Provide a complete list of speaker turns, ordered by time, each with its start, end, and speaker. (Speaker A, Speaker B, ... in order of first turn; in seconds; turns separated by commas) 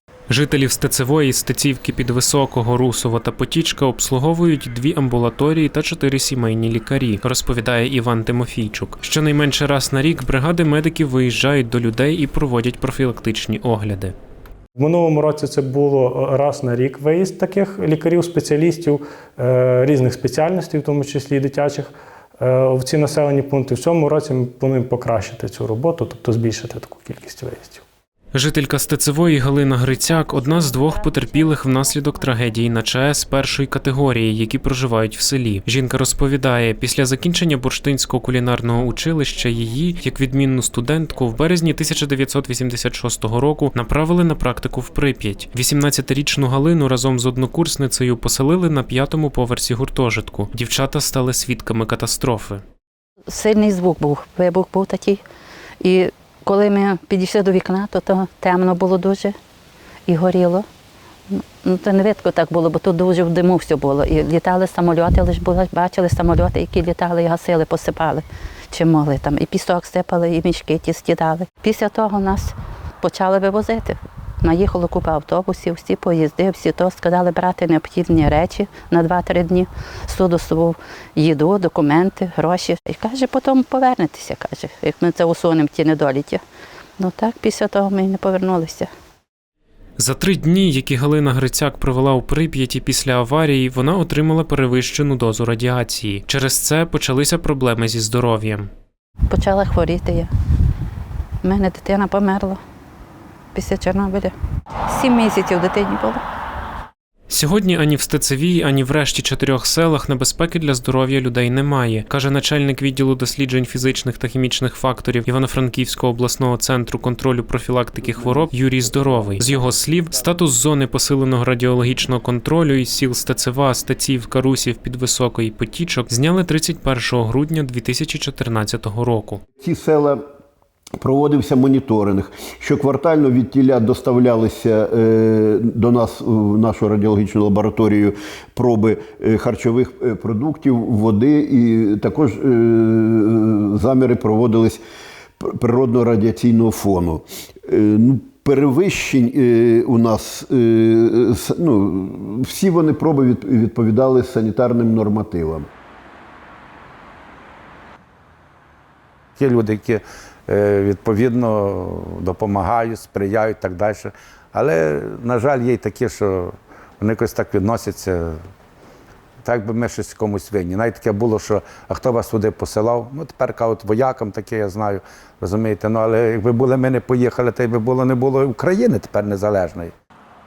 Speaker A: 0.3-14.2, Speaker B: 14.8-27.8, Speaker A: 28.3-52.6, Speaker C: 53.3-55.2, Speaker C: 55.8-59.4, Speaker C: 60.1-60.6, Speaker C: 61.3-86.4, Speaker C: 87.0-88.9, Speaker A: 90.0-98.7, Speaker C: 99.3-100.3, Speaker C: 101.4-102.6, Speaker C: 103.5-104.3, Speaker C: 104.9-106.2, Speaker A: 107.3-129.4, Speaker D: 129.6-130.2, Speaker D: 131.0-144.8, Speaker D: 145.4-155.7, Speaker E: 159.4-168.4, Speaker E: 169.4-179.9